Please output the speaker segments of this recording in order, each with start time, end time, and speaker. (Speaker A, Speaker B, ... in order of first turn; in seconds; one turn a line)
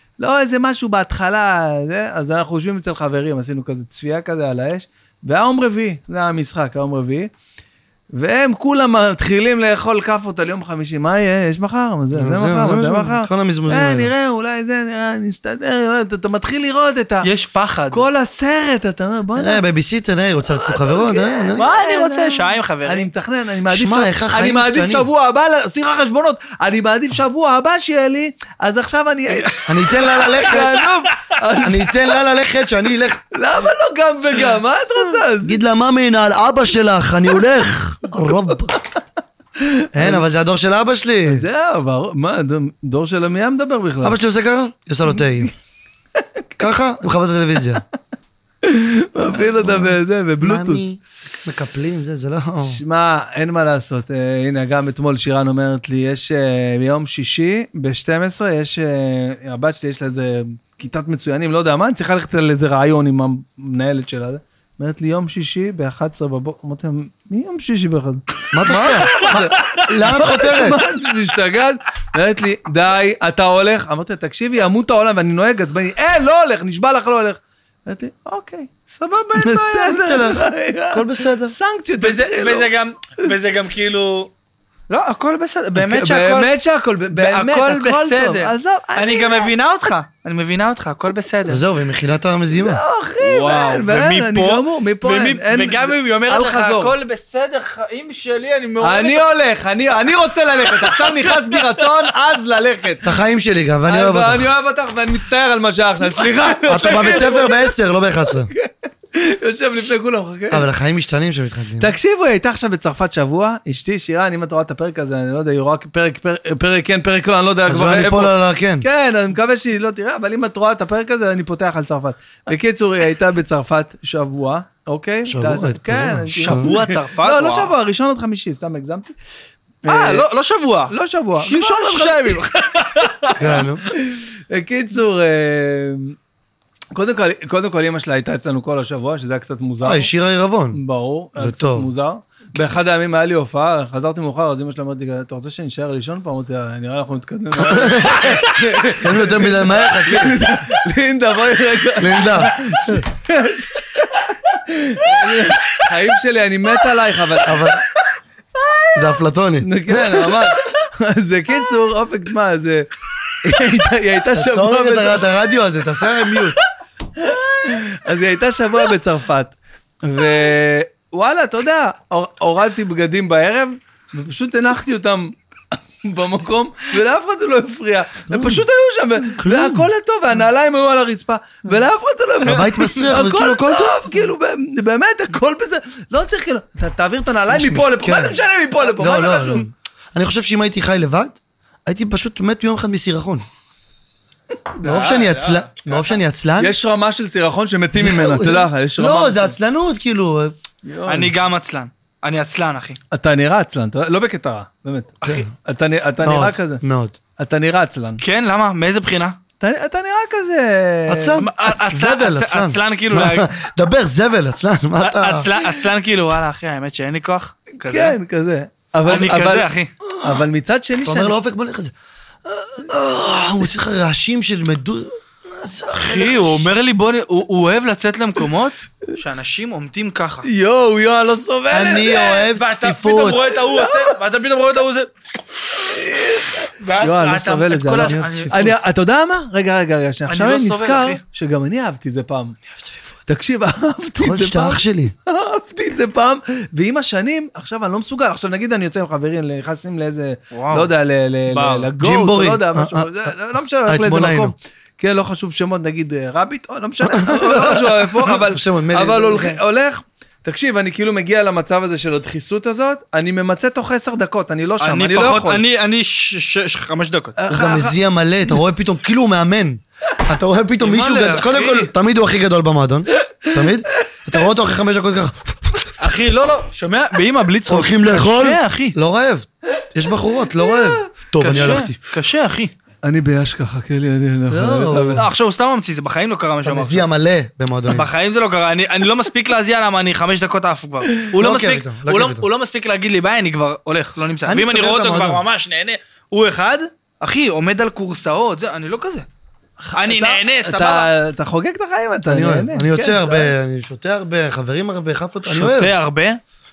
Speaker A: 0.2-7.3
Speaker A: 8.1-17.3
Speaker B: 12.1-14.1
Speaker C: 17.2-18.0
Speaker A: 17.9-19.6
Speaker B: 19.4-21.7
Speaker A: 20.7-31.9
Speaker C: 21.6-23.1
Speaker B: 23.7-25.1
Speaker B: 29.7-30.8
Speaker B: 31.6-33.3
Speaker A: 33.3-35.6
Speaker B: 35.4-38.8
Speaker A: 39.6-40.2
Speaker B: 39.9-41.5
Speaker A: 41.3-44.2
Speaker B: 44.0-45.5
Speaker B: 46.6-47.8
Speaker A: 48.6-50.9
Speaker B: 49.4-52.8
Speaker A: 52.6-78.7
Speaker B: 68.5-70.8
Speaker C: 69.1-69.8
Speaker C: 78.9-80.0
Speaker A: 79.4-82.7
Speaker B: 79.8-81.6
Speaker C: 82.0-84.3
Speaker C: 84.9-86.5
Speaker A: 85.8-89.6
Speaker C: 87.1-91.6
Speaker B: 91.5-92.8
Speaker A: 92.5-96.9
Speaker C: 93.2-99.3
Speaker A: 98.8-103.1
Speaker C: 100.7-101.9
Speaker B: 103.0-104.5
Speaker A: 103.9-107.7
Speaker B: 106.7-108.5
Speaker A: 108.5-110.7
Speaker B: 110.5-111.9
Speaker A: 111.8-129.1
Speaker B: 117.7-118.9
Speaker B: 125.3-126.7
Speaker C: 126.4-127.7
Speaker A: 129.8-130.3
Speaker C: 129.9-133.4
Speaker A: 130.9-133.3
Speaker B: 133.4-133.9
Speaker A: 133.9-136.2
Speaker A: 136.9-140.1
Speaker B: 139.8-140.8
Speaker A: 140.7-157.6
Speaker B: 141.4-141.9
Speaker B: 147.6-150.4
Speaker B: 152.0-153.0
Speaker B: 157.4-157.8
Speaker B: 158.9-160.5
Speaker A: 159.6-162.9
Speaker A: 163.4-165.2
Speaker B: 164.4-166.6
Speaker A: 167.2-189.7
Speaker B: 178.3-178.6
Speaker B: 179.4-179.9
Speaker B: 182.4-184.1
Speaker B: 187.5-188.4
Speaker B: 189.0-193.4
Speaker B: 194.8-196.8
Speaker C: 194.8-196.1
Speaker A: 196.6-199.6
Speaker B: 197.9-200.6
Speaker A: 200.8-201.3
Speaker C: 201.1-203.0
Speaker A: 203.1-206.8
Speaker C: 205.2-205.5
Speaker B: 205.2-205.5
Speaker B: 206.2-207.2
Speaker A: 207.4-208.2
Speaker C: 208.2-209.4
Speaker A: 209.6-211.4
Speaker B: 211.1-215.5
Speaker C: 211.4-213.5
Speaker C: 215.0-218.2
Speaker A: 217.7-219.7
Speaker C: 219.0-219.9
Speaker A: 220.2-221.4
Speaker B: 221.1-221.9
Speaker B: 222.5-226.7
Speaker C: 225.9-230.5
Speaker A: 230.4-232.4
Speaker B: 231.7-233.5
Speaker C: 232.6-235.1
Speaker C: 235.7-236.0
Speaker A: 235.9-242.6
Speaker C: 236.7-238.6
Speaker B: 238.1-238.8
Speaker C: 240.3-241.2
Speaker A: 243.3-265.6
Speaker B: 244.2-245.1
Speaker C: 250.5-250.9
Speaker C: 251.5-251.9
Speaker B: 252.0-253.3
Speaker B: 253.9-254.5
Speaker B: 257.1-259.6
Speaker C: 264.8-267.4
Speaker A: 267.4-268.0
Speaker B: 267.5-275.9
Speaker C: 270.8-271.9
Speaker C: 276.0-278.9
Speaker B: 277.7-282.0
Speaker C: 281.4-282.7
Speaker A: 283.1-285.2
Speaker B: 284.5-285.2
Speaker C: 285.2-287.1
Speaker B: 286.6-288.1
Speaker C: 287.9-299.3
Speaker B: 291.3-292.4
Speaker B: 294.4-295.4
Speaker A: 299.8-303.5
Speaker C: 299.9-301.1
Speaker B: 302.2-305.9
Speaker C: 305.5-306.4